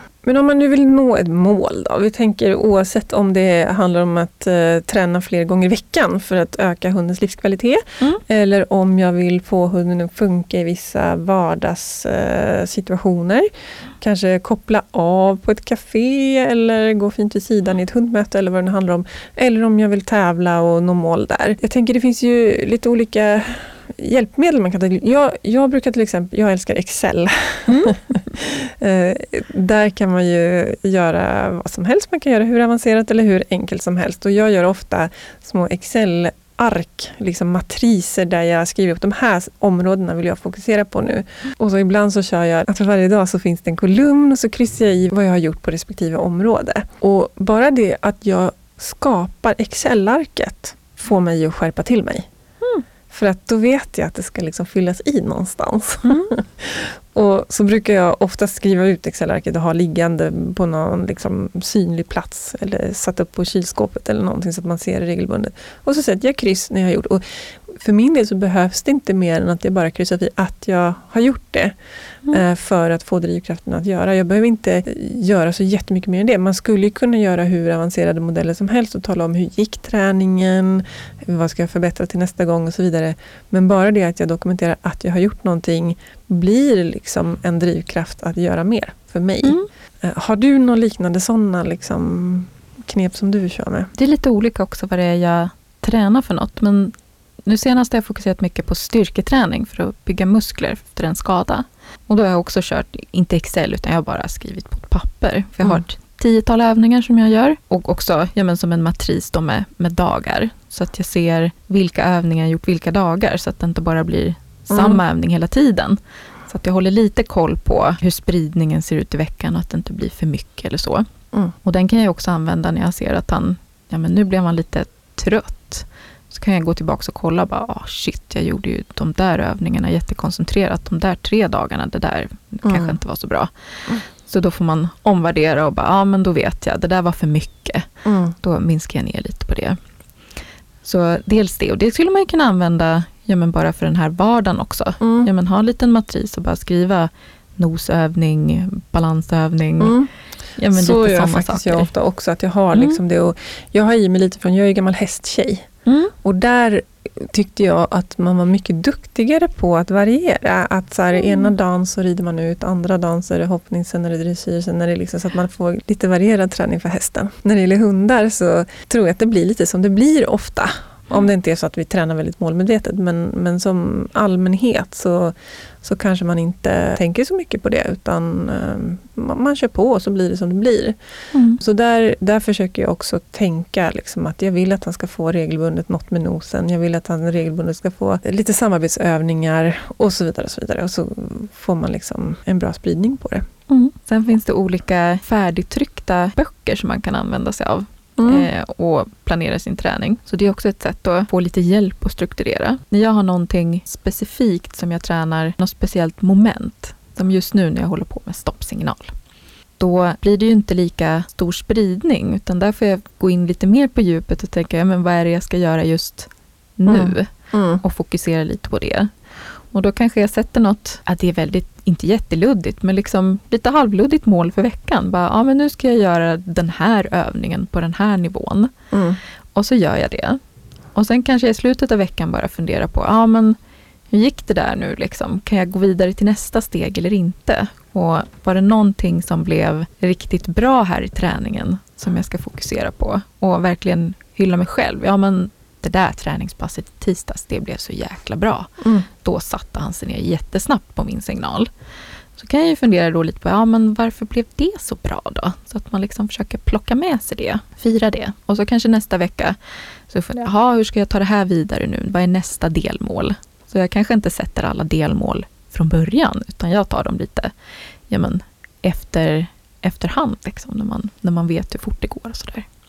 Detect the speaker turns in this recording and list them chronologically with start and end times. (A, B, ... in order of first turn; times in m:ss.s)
0:00.2-0:13.5 A
0:14.0-0:52.3 A
0:27.7-0:28.0 B
0:53.1-1:11.7 A
1:12.3-1:33.9 A
1:34.0-1:36.9 B
1:37.4-2:01.1 B
1:54.7-1:55.0 A
2:01.6-2:13.5 B
2:12.6-2:13.0 A
2:14.2-2:17.9 B
2:18.0-2:18.4 A
2:18.4-2:19.8 B
2:20.8-2:30.0 B
2:25.0-2:25.3 A
2:29.8-2:30.1 A
2:30.6-2:31.9 B
2:30.7-2:35.7 A
2:32.7-2:33.0 B
2:35.9-2:36.1 B
2:36.2-3:01.0 A
3:01.3-3:01.6 B
3:01.6-3:13.5 A
3:13.7-3:29.2 B
3:18.2-3:18.5 A
3:29.8-3:37.3 B
3:36.9-3:37.8 A
3:37.8-3:39.1 B
3:39.7-3:48.7 B
3:48.9-3:49.2 A
3:49.6-3:50.4 B
3:50.9-3:53.6 B
3:54.1-4:11.7 B
4:08.8-4:09.1 A
4:12.4-4:19.6 B
4:20.1-4:27.5 B
4:28.1-4:32.7 B